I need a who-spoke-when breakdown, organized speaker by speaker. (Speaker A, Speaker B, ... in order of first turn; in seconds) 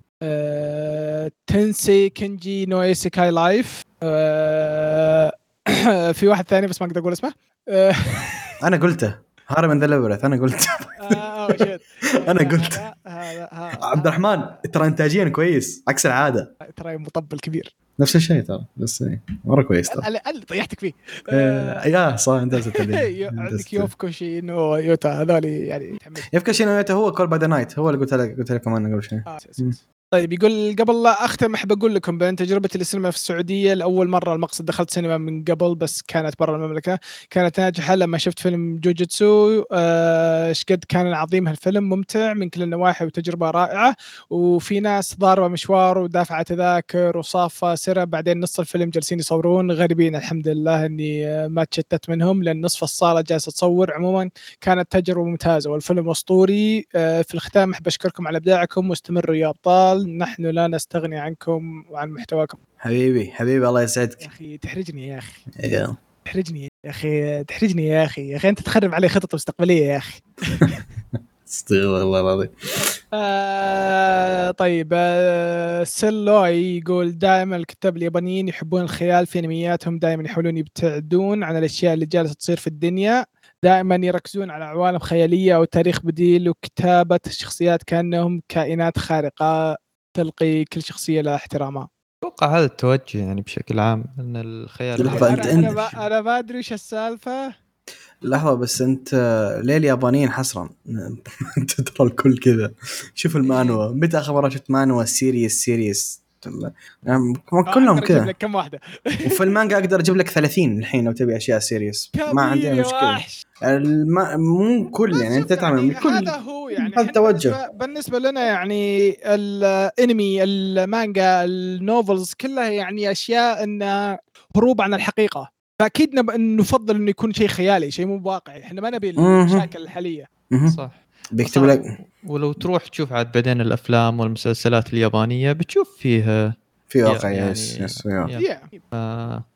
Speaker A: 0.3-8.5, 11.0-14.3, 16.7-17.7, 19.9-21.8, 22.7-26.3, 29.3-62.6, 64.2-65.5, 66.3-70.8, 73.2-89.5, 90.2-91.9, 95.0-97.5, 103.4-103.8, 107.7-109.5, 112.2-113.4, 115.1-130.3, 138.4-138.8
Speaker B: 8.6-11.7, 12.2-12.8, 13.8-16.5, 18.0-20.1, 21.3-23.9, 26.3-29.7, 62.8-64.2, 65.6-66.0, 70.6-72.9, 95.0-95.8, 98.2-108.3, 109.3-117.6, 129.2-129.7, 130.5-130.8, 131.3-131.8, 136.9-138.3
Speaker C: 92.2-96.0, 130.7-136.5, 137.1-139.4